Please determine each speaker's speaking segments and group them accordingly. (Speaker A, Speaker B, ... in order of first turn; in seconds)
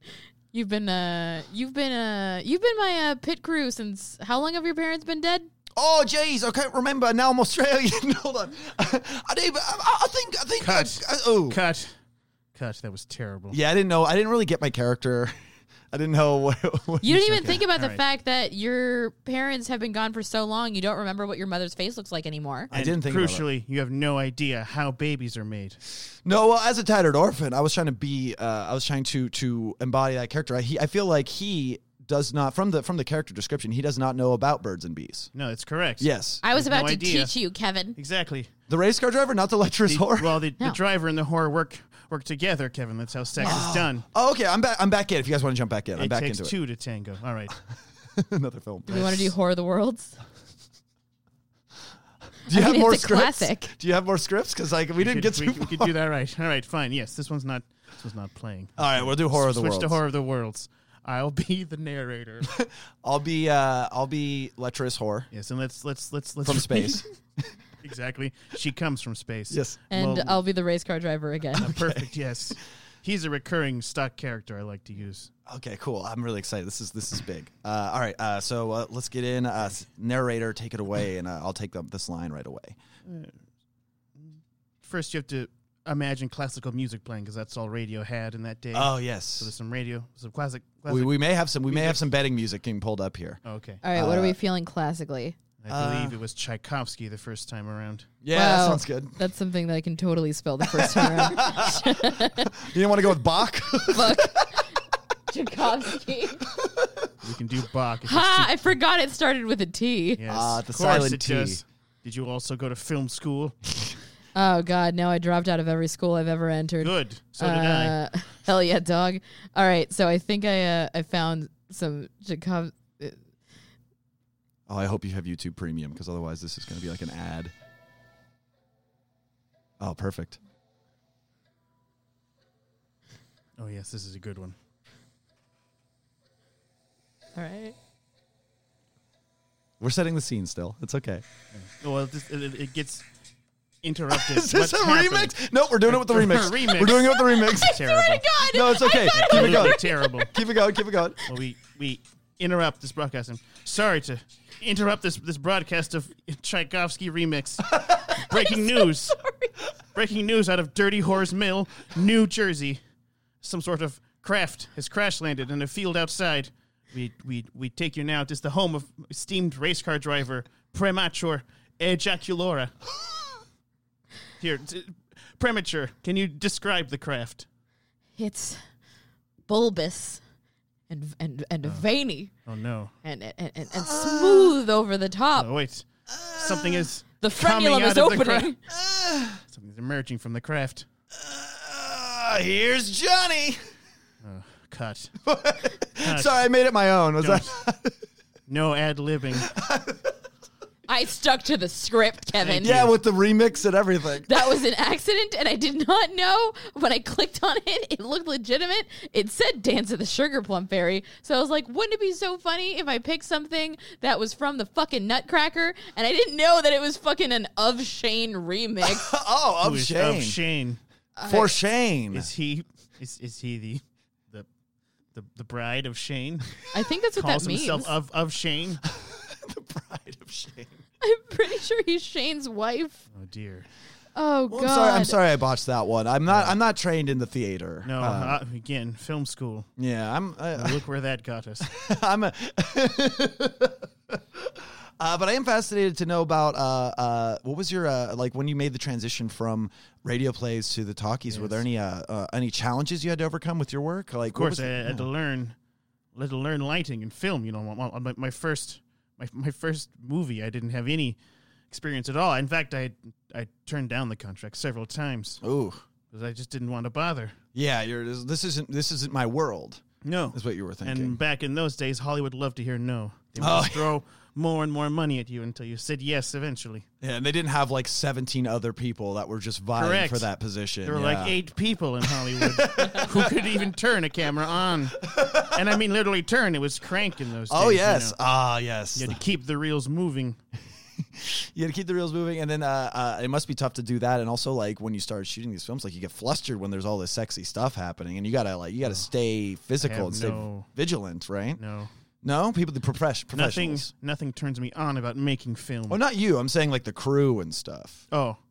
Speaker A: 0.5-5.5, 17.0-22.7, 36.4-38.0, 43.4-43.6, 48.9-50.2, 52.5-53.7, 69.9-71.7, 93.8-95.4, 98.3-102.5, 103.9-104.8, 105.3-106.5, 108.1-110.2, 114.3-123.2, 137.4-137.8, 147.3-150.3, 158.3-159.5, 178.2-178.6, 179.5-180.2, 180.9-182.3, 183.0-185.5, 187.2-188.6, 200.9-202.9, 204.3-219.1, 221.2-221.6, 226.7-227.9, 231.0-233.0, 234.1-235.2
Speaker B: 5.8-11.6, 13.5-15.3, 15.9-17.6, 22.7-23.5, 26.2-35.3, 36.0-36.4, 38.7-40.4, 43.4-46.5, 48.1-49.3, 52.5-55.9, 58.8-60.0, 62.5-65.3, 66.5-67.5, 69.5-69.8, 71.6-72.1, 75.5-82.8, 88.7-89.5, 90.9-93.4, 93.9-94.4, 95.7-96.2, 98.2-99.2, 100.6-104.6, 106.5-107.1, 110.3-111.6, 124.7-127.5, 129.8-130.4, 139.8-141.2, 144.1-147.8, 148.4-151.2, 157.8-158.1, 183.7-184.6, 186.1-186.9, 188.7-189.4, 191.1-193.6, 195.2-198.0, 199.4-200.2, 202.4-204.6, 218.8-220.4, 221.2-222.3, 228.8-230.7, 234.5-238.4, 239.8-240.8, 241.6-255.1, 265.4-265.8, 267.6-271.2, 273.4-273.9, 277.0-281.4, 282.0-283.6, 285.0-285.8, 287.5-289.2, 291.0-301.6, 302.2-303.9, 305.9-308.1
Speaker C: 10.6-11.9, 12.5-13.6, 17.4-18.0, 22.7-25.8, 35.3-37.3, 38.0-38.5, 39.9-44.0, 46.0-47.6, 55.0-62.5, 65.3-67.0, 67.8-70.4, 71.6-75.3, 83.0-83.4, 84.2-92.0, 93.5-93.8, 95.6-98.1, 107.2-108.6, 110.2-113.6, 116.8-118.0, 133.6-134.6, 141.5-143.1, 143.8-145.3, 145.9-148.3, 149.1-150.3, 151.3-159.2, 159.9-162.8, 163.4-172.8, 174.4-177.5, 182.5-182.9, 185.4-188.5, 189.5-190.9, 194.2-195.1, 196.0-196.4, 197.2-197.6, 198.5-199.5, 202.4-202.8, 219.6-220.8, 222.1-224.5, 225.1-226.6, 227.1-228.8, 233.1-233.7, 236.3-236.6, 237.8-239.7, 240.6-241.7, 251.3-251.6, 254.3-255.6, 256.1-261.2, 261.7-265.4, 266.1-267.4, 270.0-276.9, 279.8-280.3, 280.9-288.2, 288.9-290.4, 299.8-300.7, 301.6-301.9, 303.3-306.0, 308.1-308.4